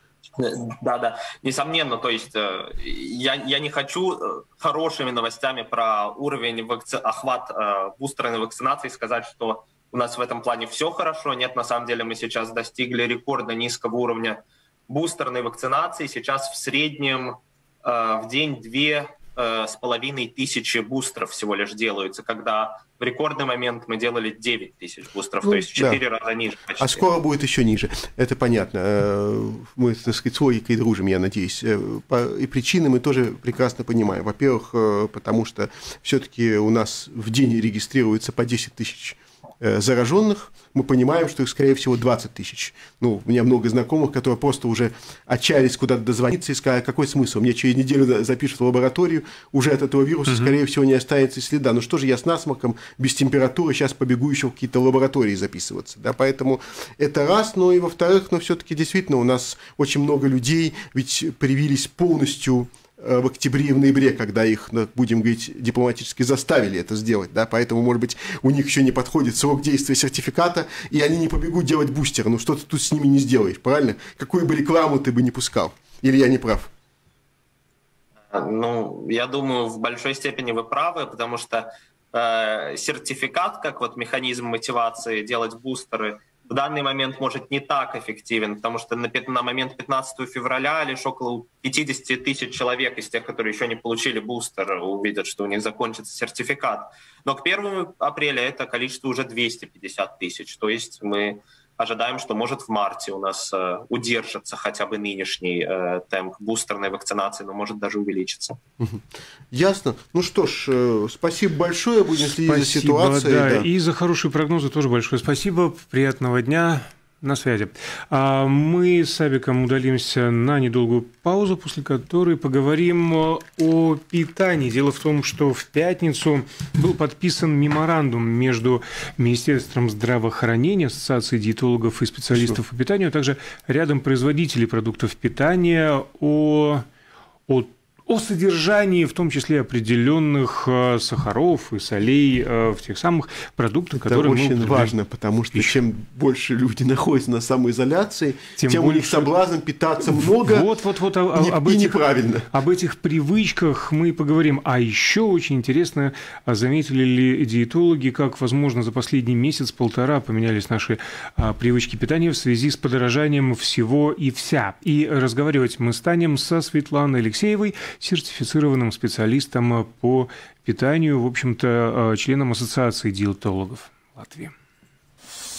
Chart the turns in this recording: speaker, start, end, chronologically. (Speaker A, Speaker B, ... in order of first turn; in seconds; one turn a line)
Speaker A: 0.3-27.0
Speaker B: 25.4-26.0
Speaker B: 26.8-76.7
Speaker A: 78.3-108.5
Speaker B: 108.8-113.7
Speaker C: 112.2-136.8
Speaker C: 137.5-144.9
Speaker B: 143.9-150.7
Speaker C: 145.5-145.8
Speaker C: 148.6-149.3
Speaker C: 150.0-174.5
Speaker B: 151.3-152.5